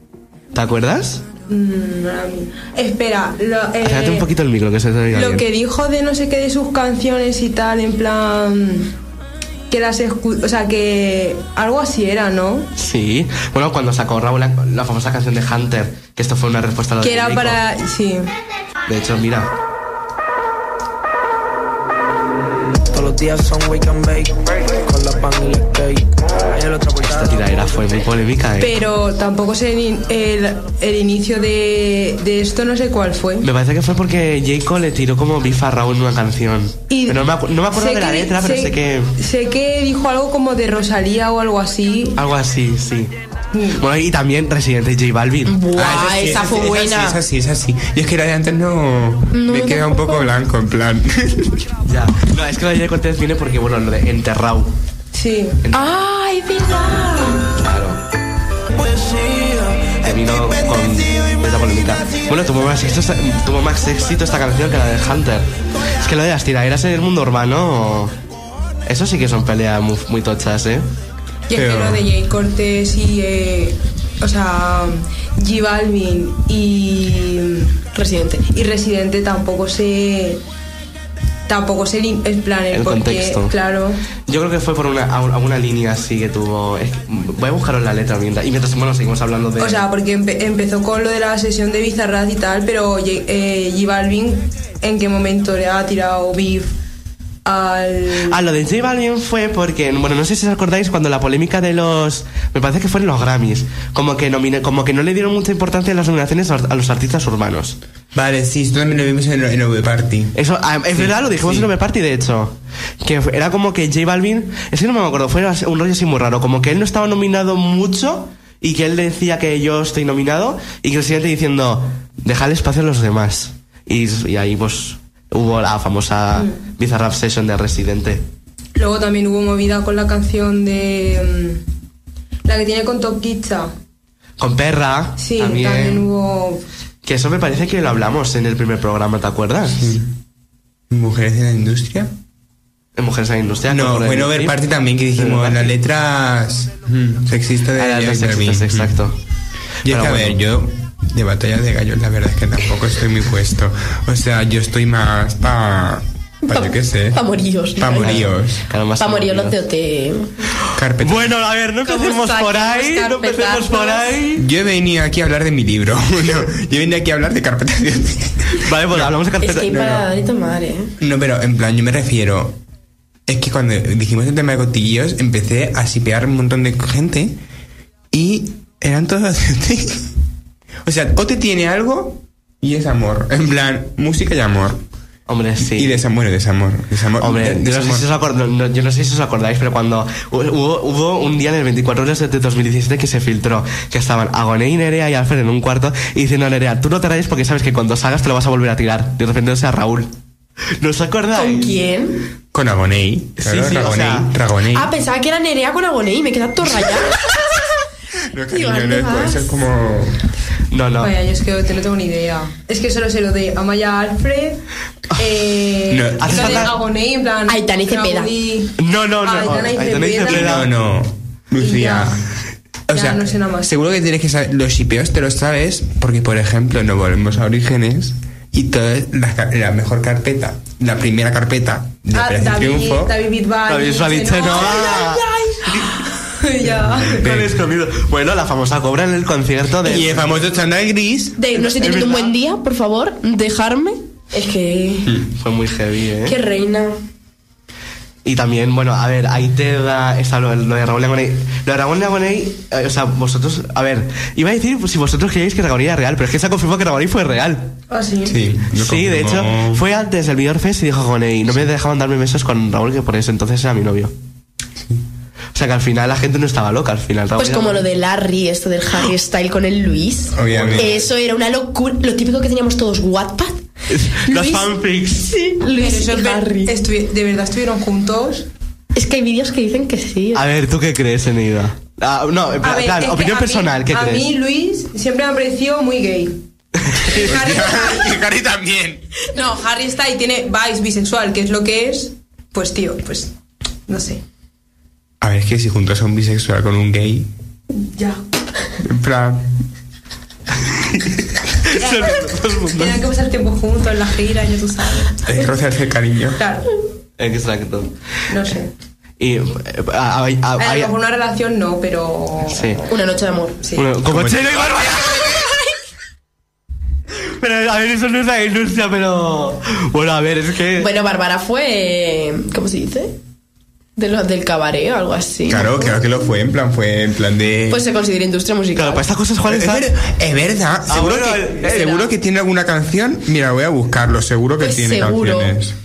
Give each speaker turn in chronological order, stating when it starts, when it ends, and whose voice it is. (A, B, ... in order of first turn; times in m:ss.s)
0:00.5-0:01.2 A
0:01.5-0:04.3 B
0:03.8-0:05.4 A
0:05.1-0:08.9 B
0:09.7-0:12.7 B
0:12.8-0:17.6 A
0:17.0-0:18.3 B
0:18.9-0:19.5 A
0:22.9-0:27.8 C
0:27.0-0:28.8 A
0:28.6-0:33.5 B
0:33.4-0:39.1 A
0:36.9-0:42.2 B
0:42.2-0:43.1 A
0:43.5-0:43.8 B
0:43.8-0:45.6 A
0:45.4-0:47.2 D
0:45.7-0:51.7 E
0:49.3-0:50.3 D
0:51.8-0:54.7 A
0:55.1-0:55.6 B
0:55.7-0:57.5 D
0:57.6-0:58.0 A
1:00.0-1:08.1 A
1:08.8-1:10.9 A
1:11.5-1:17.7 B
1:11.5-1:12.0 E
1:17.9-1:18.4 D
1:18.5-1:20.4 B
1:21.5-1:24.0 B
1:22.7-1:23.5 A
1:24.3-1:29.8 A
1:29.6-1:36.7 B
1:37.4-1:38.4 B
1:38.2-1:47.8 A
1:48.1-1:50.4 E
1:50.3-2:08.2 A
1:50.9-1:51.7 E
2:08.8-2:11.6 B
2:12.4-2:13.7 B
2:14.4-2:16.1 A
2:15.2-2:16.6 B
2:17.0-2:19.9 A
2:19.8-2:20.2 E
2:20.9-2:22.1 E
2:23.0-2:24.6 A
2:23.7-2:29.0 E
2:25.2-2:25.7 A
2:27.8-2:29.2 A
2:29.8-2:37.2 E
2:29.8-2:30.4 A
2:36.5-2:38.2 D
2:37.8-2:38.6 E
2:37.9-2:39.6 A
2:39.0-2:40.5 D
2:40.6-2:44.4 A
2:40.7-2:41.5 E
2:41.8-2:44.0 B
2:44.4-2:49.1 E
2:48.6-2:49.8 A
2:49.4-2:50.9 D
2:49.7-2:50.1 E
2:51.0-2:52.6 E
2:53.3-2:57.4 E
2:58.1-3:00.1 E
3:00.8-3:04.8 E
3:05.3-3:06.0 A
3:05.6-3:08.1 E
3:07.2-3:20.1 A
3:20.8-3:21.8 A
3:21.3-3:22.3 D
3:22.5-3:24.9 E
3:23.4-3:24.3 A
3:24.7-3:27.3 D
3:28.3-3:30.2 E
3:28.5-3:29.5 D
3:30.7-3:31.1 A
3:31.0-3:34.6 B
3:35.1-3:35.4 A
3:35.2-3:40.6 B
3:35.9-3:36.7 E
3:36.2-3:36.8 A
3:37.5-3:38.3 D
3:38.8-3:40.7 A
3:40.2-3:42.4 E
3:41.6-3:42.1 B
3:42.9-3:53.1 E
3:42.9-3:43.7 B
3:52.1-3:55.2 B
3:53.7-3:55.9 A
3:54.5-3:55.7 D
3:55.9-3:57.4 B
3:56.6-3:57.5 E
3:57.0-4:00.3 A
3:59.8-4:01.6 E
4:01.4-4:05.2 D
4:01.6-4:02.3 A
4:05.3-4:06.4 A
4:06.2-4:07.0 D
4:08.2-4:17.7 A
4:17.9-4:18.4 B
4:18.2-4:19.8 E
4:18.7-4:24.1 A
4:25.5-4:27.9 A
4:27.4-4:33.6 D
4:30.3-4:30.9 E
4:30.4-4:31.0 A
4:33.9-4:35.3 A
4:34.2-4:36.7 D
4:35.7-4:38.5 B
4:38.9-4:40.4 D
4:40.3-4:44.3 A
4:42.6-4:46.4 B
4:46.9-4:47.2 A
4:47.0-4:48.2 B
4:47.1-4:49.0 E
4:49.3-4:53.3 B
4:53.9-4:54.2 B
4:55.2-4:57.3 E
4:57.7-4:58.2 B
4:58.8-4:59.5 E
5:00.7-5:03.0 A
5:01.8-5:05.4 B
5:05.2-5:06.4 E
5:06.4-5:06.7 B
5:07.2-5:07.9 A
5:08.3-5:08.7 B
5:09.2-5:10.9 A
5:10.6-5:12.8 B
5:12.5-5:12.8 A
5:12.9-5:13.6 D
5:13.7-5:15.5 A
5:14.1-5:15.0 E
5:17.2-5:20.9 A
5:20.8-5:23.2 D
5:24.0-5:26.0 D
5:25.5-5:27.8 E
5:27.7-5:29.0 D
5:28.8-5:29.9 A
5:29.5-5:35.7 E
5:30.9-5:32.1 A
5:34.6-5:35.5 D